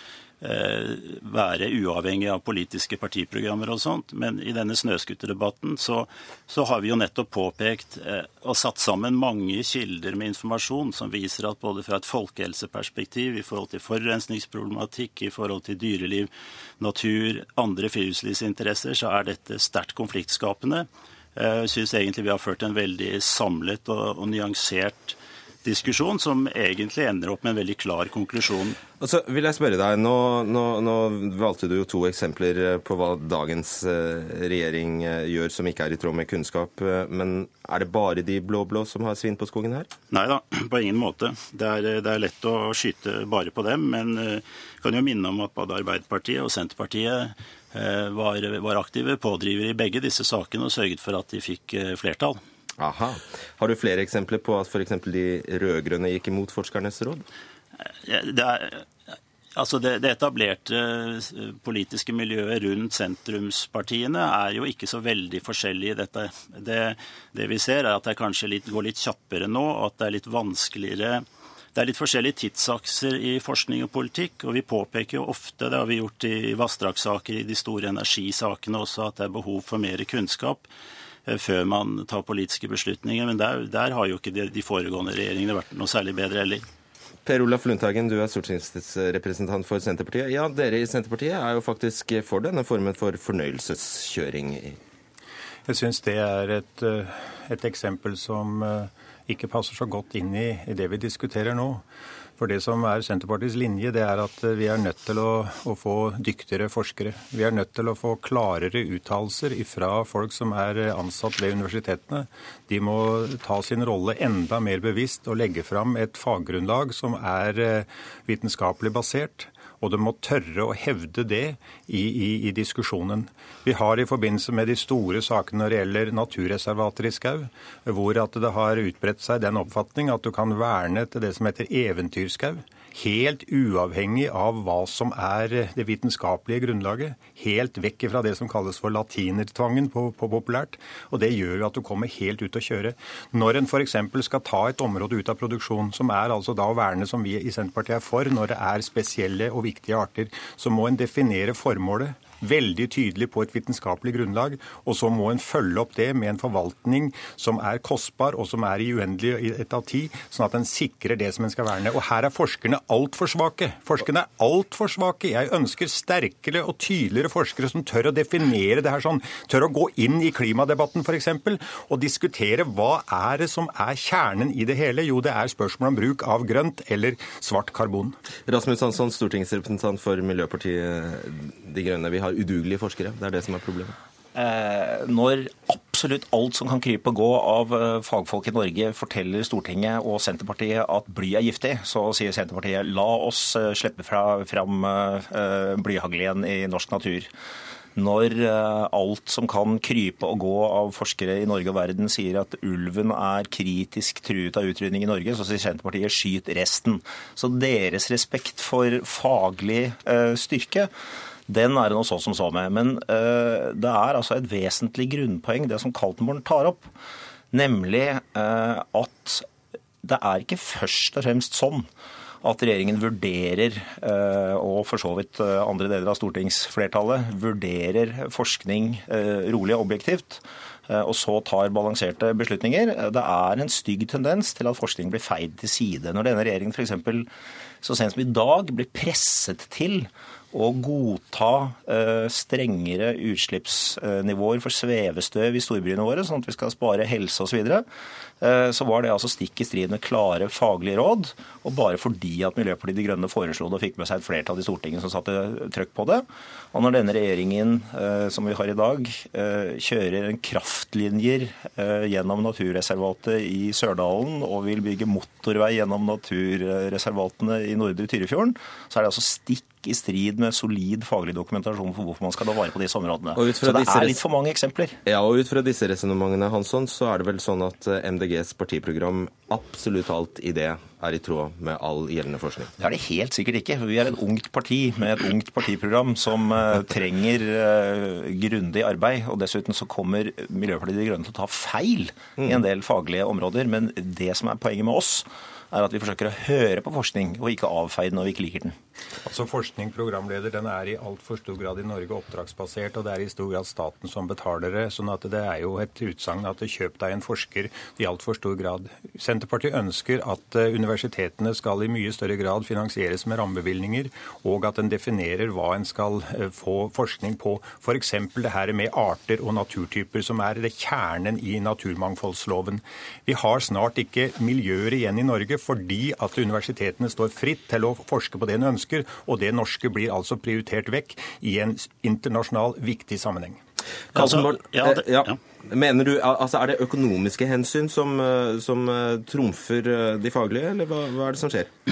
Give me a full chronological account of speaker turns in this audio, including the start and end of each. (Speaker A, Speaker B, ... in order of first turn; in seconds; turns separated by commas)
Speaker A: 0.4-28.8, Speaker B: 29.0-39.9, Speaker A: 40.1-52.4, Speaker B: 52.8-57.2, Speaker A: 58.0-58.9, Speaker A: 59.5-80.7, Speaker A: 81.3-86.6, Speaker B: 87.2-94.8, Speaker C: 95.7-101.8, Speaker C: 102.4-178.2, Speaker B: 178.5-183.9, Speaker D: 184.3-197.3, Speaker D: 197.9-210.9, Speaker D: 211.5-216.9, Speaker D: 217.5-219.4, Speaker D: 220.0-221.9, Speaker D: 222.4-237.3, Speaker D: 237.8-247.8, Speaker D: 248.4-275.0, Speaker B: 273.4-274.2, Speaker B: 275.0-282.7, Speaker D: 282.8-298.7, Speaker C: 299.2-333.6, Speaker B: 334.1-341.7, Speaker A: 334.1-335.4